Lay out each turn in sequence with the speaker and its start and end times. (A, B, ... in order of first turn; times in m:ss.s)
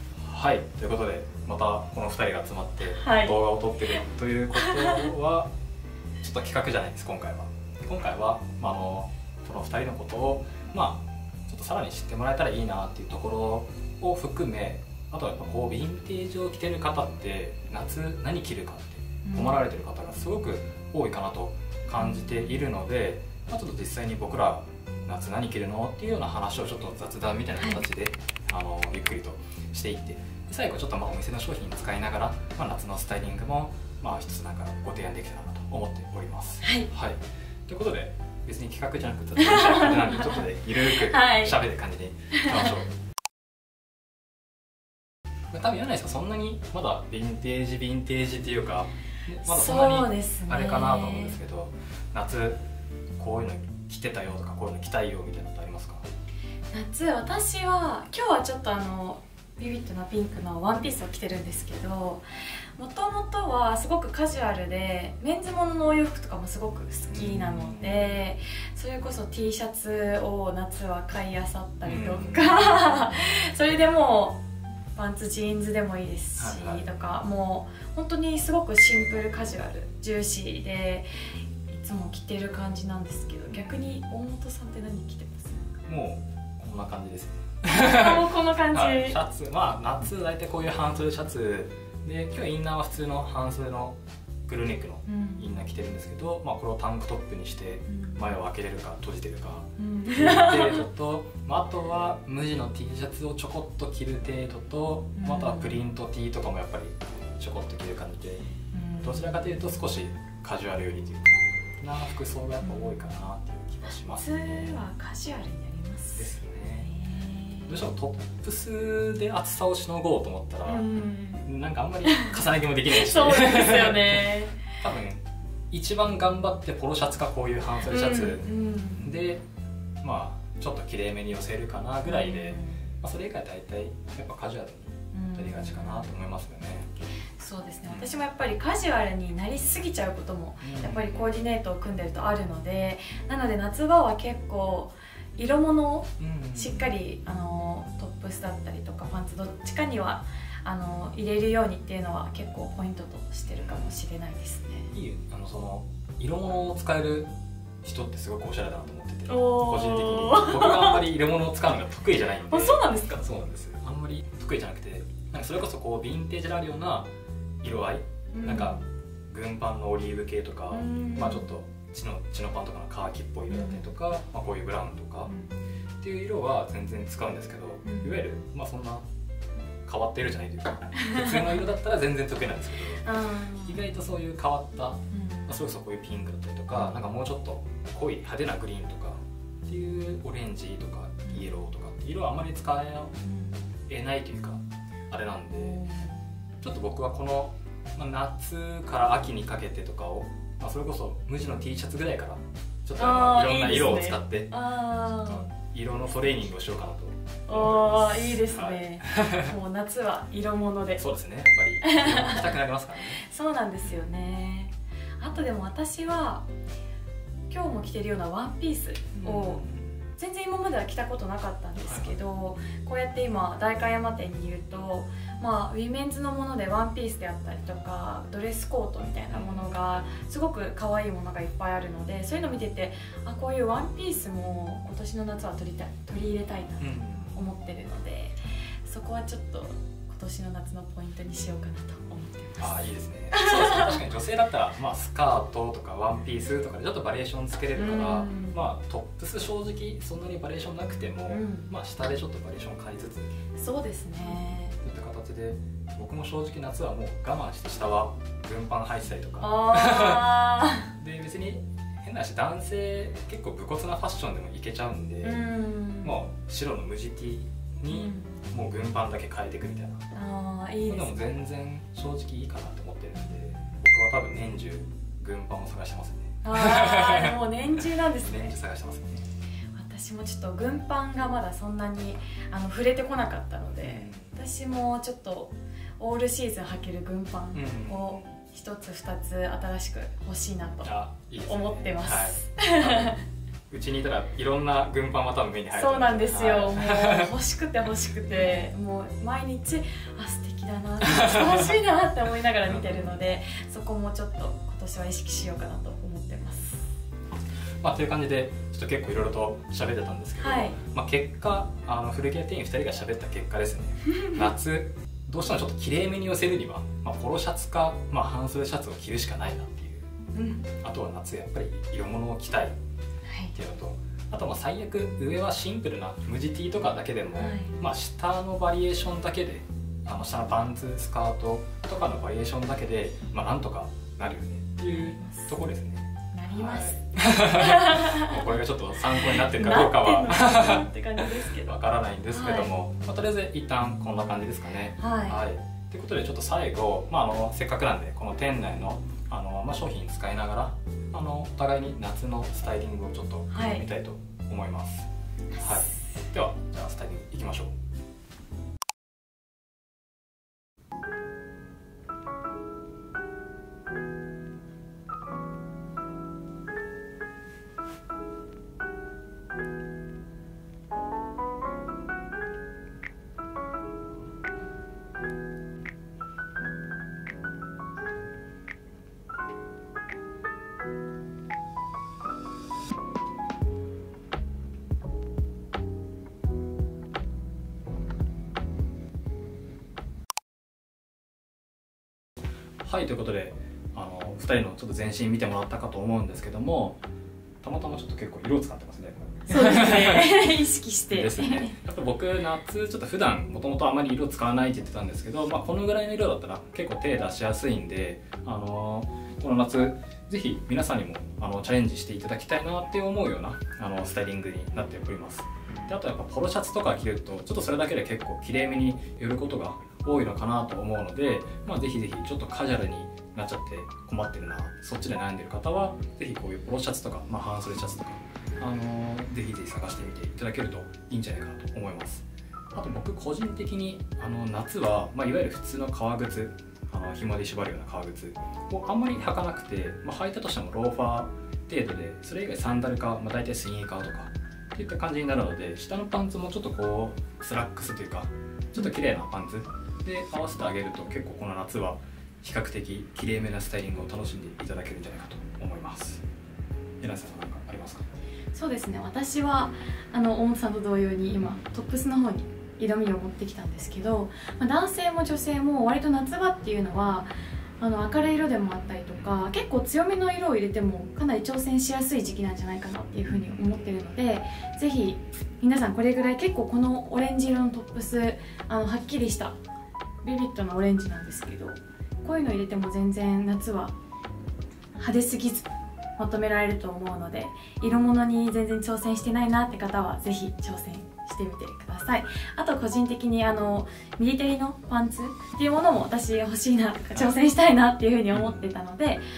0:00.2-0:05.5 A
0:02.8-0:03.4 B
0:04.6-0:05.1 B
0:06.2-0:42.9 A
0:19.2-0:19.6 B
0:22.0-0:22.4 B
0:36.6-0:36.9 B
0:39.4-0:41.6 B
0:42.3-0:42.7 B
0:45.5-0:52.6 A
0:49.4-0:51.4 B
0:53.2-0:56.1 A
0:56.7-1:02.2 B
1:02.8-1:14.4 B
1:07.1-1:08.2 A
1:11.8-1:12.8 A
1:15.0-1:21.1 B
1:16.4-1:16.9 A
1:21.7-1:25.7 B
1:23.5-1:23.9 A
1:25.9-1:34.0 A
1:27.7-1:29.2 B
1:34.5-1:48.4 A
1:35.1-1:35.5 B
1:37.9-1:38.3 B
1:39.8-1:40.8 B
1:45.2-1:45.8 B
1:48.7-1:49.5 B
1:49.0-1:54.8 A
1:52.6-1:53.0 B
1:54.1-1:57.8 B
1:56.2-1:56.9 A
1:57.7-2:00.9 A
2:00.7-2:01.5 B
2:01.4-2:09.4 A
2:02.0-2:04.7 B
2:07.9-2:09.1 B
2:10.0-2:16.9 A
2:12.0-2:12.8 B
2:15.1-2:16.1 B
2:17.4-2:34.9 B
2:20.6-2:21.2 A
2:26.2-2:26.9 A
2:34.9-2:37.3 A
2:37.8-2:47.1 A
2:39.3-2:41.0 B
2:42.5-2:43.2 B
2:47.6-2:55.3 A
2:48.3-2:48.9 B
2:50.7-2:51.5 B
2:53.5-2:53.8 B
2:55.3-2:55.6 B
2:56.0-2:59.0 A
2:57.8-2:58.2 B
2:59.9-3:03.1 A
3:01.0-3:01.6 B
3:03.0-3:03.9 B
3:03.6-3:13.1 A
3:05.1-3:05.5 B
3:13.2-3:13.6 B
3:13.9-3:15.8 A
3:15.5-3:16.2 B
3:16.6-3:24.5 A
3:23.0-3:25.5 B
3:25.1-3:29.5 A
3:27.5-3:31.0 B
3:31.0-3:33.2 A
3:31.8-3:32.6 B
3:33.2-3:36.4 B
3:37.5-3:39.6 B
3:39.1-3:40.0 A
3:40.2-4:03.9 B
3:41.8-3:42.2 A
3:49.3-3:49.7 A
3:56.8-3:57.4 A
4:02.6-4:13.3 A
4:07.8-4:08.6 B
4:11.3-4:11.7 B
4:13.6-4:14.8 B
4:14.8-4:20.4 A
4:19.4-4:20.9 B
4:21.0-4:25.4 A
4:25.2-4:26.2 B
4:26.0-4:30.0 A
4:27.9-4:28.3 B
4:30.1-4:31.4 B
4:30.9-4:39.3 A
4:33.2-4:33.7 B
4:36.4-4:38.5 B
4:39.8-4:53.2 B
4:43.8-4:44.4 A
4:47.5-4:48.3 A
4:50.8-4:53.2 A
4:53.7-4:57.3 A
4:55.7-5:06.9 B
5:01.0-5:01.8 A
5:02.7-5:03.1 A
5:07.8-5:20.1 A
5:10.4-5:10.8 B
5:14.1-5:14.4 B
5:20.4-5:20.7 B
5:20.8-5:22.8 A
5:23.3-5:23.6 B
5:23.5-5:55.1 A
5:27.4-5:27.8 B
5:34.9-5:35.6 B
5:36.3-5:38.4 B
5:39.1-5:42.7 B
5:45.0-5:45.4 B
5:53.5-5:53.8 B
5:55.5-5:56.2 B
5:55.6-5:57.8 A
6:32.8-6:37.0 A
6:37.6-6:40.5 A
6:39.5-6:41.7 B
6:41.1-7:36.2 A
7:37.0-7:38.0 A
7:38.5-7:59.5 B
8:00.2-8:03.9 B
8:05.0-8:19.2 B
8:18.3-8:18.7 A